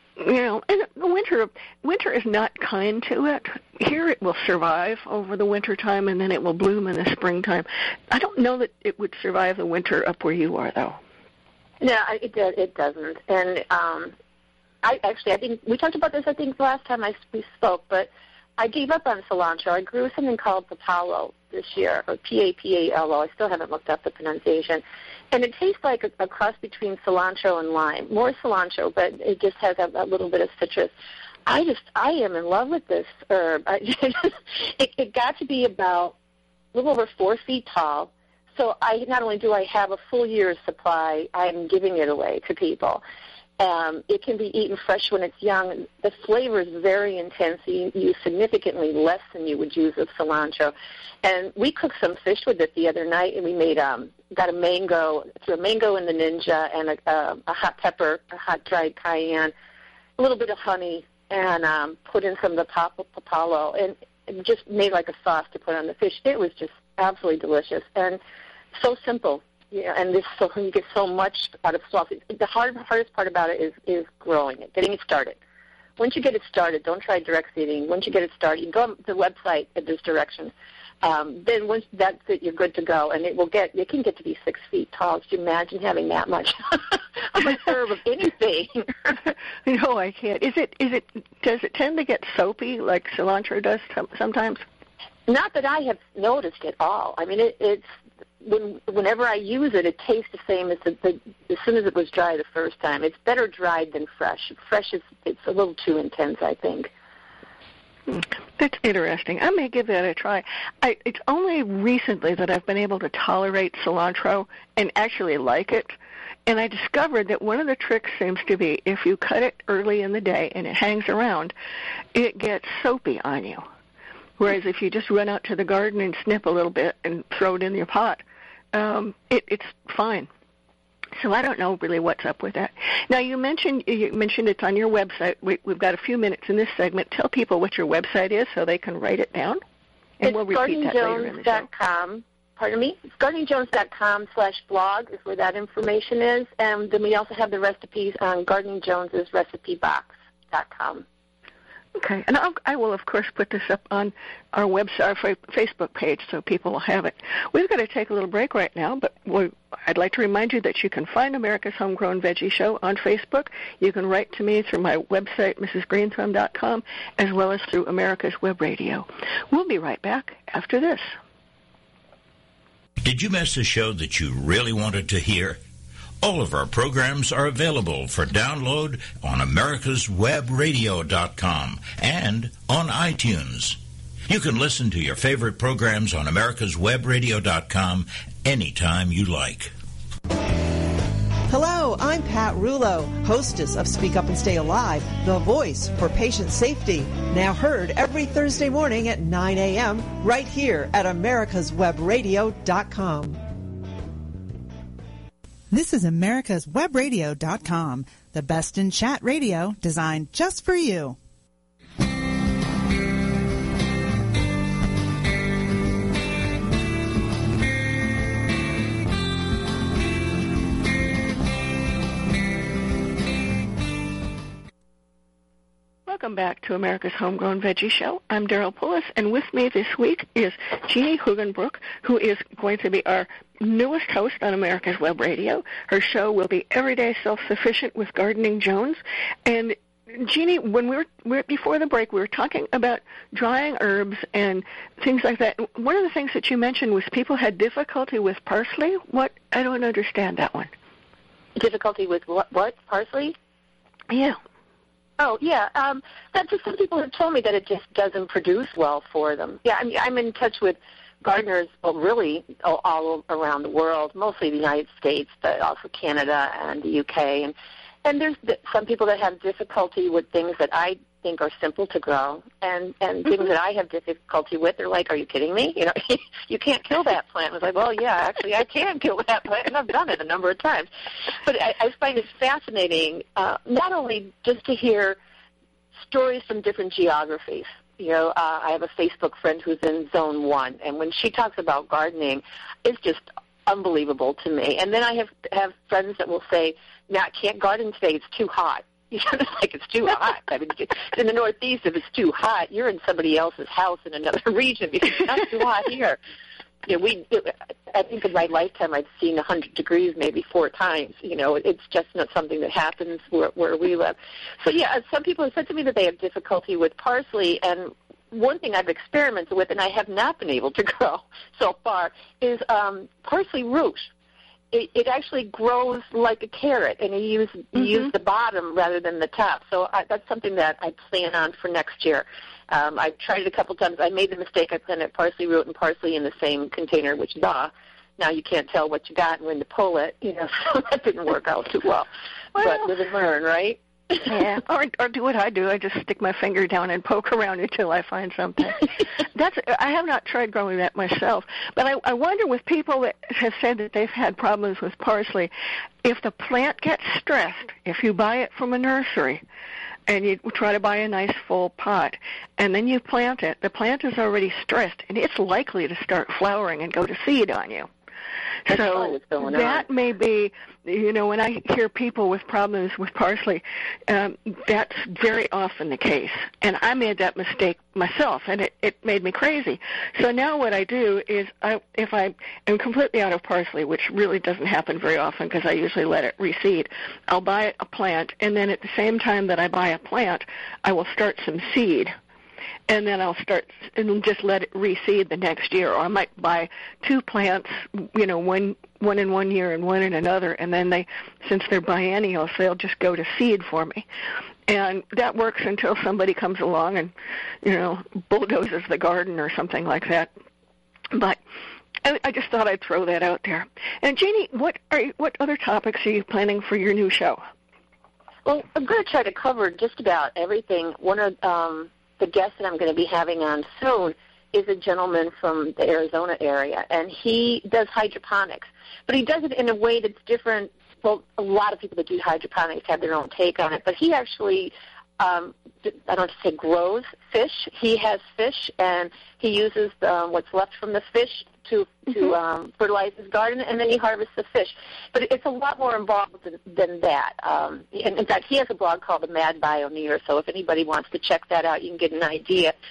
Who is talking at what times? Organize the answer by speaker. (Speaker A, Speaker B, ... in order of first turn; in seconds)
Speaker A: 0.2-11.0, 89.6-94.6, 108.1-115.9, 116.5-121.5, 122.1-123.7, 124.4-130.3, 131.2-139.6, 140.2-141.7, 151.9-171.1, 226.1-250.7, 254.1-254.4, 342.6-342.9, 344.3-355.5, 356.0-359.4, 360.1-367.9, 368.6-392.1, 392.9-404.1, 404.7-410.3, 411.1-411.4, 412.0-417.4
Speaker B: 11.8-14.1, 14.8-30.9, 31.4-36.1, 36.7-43.0, 43.6-59.5, 60.2-68.2, 68.8-75.4, 76.0-89.1, 95.3-97.8, 98.4-106.9, 140.2-151.0, 251.6-253.3, 255.2-267.5, 268.0-285.2, 286.0-306.2, 306.8-324.1, 324.7-344.3, 368.7-369.8, 418.4-452.7
Speaker C: 173.0-175.6, 176.2-189.7
Speaker D: 191.5-203.4
Speaker E: 205.7-211.2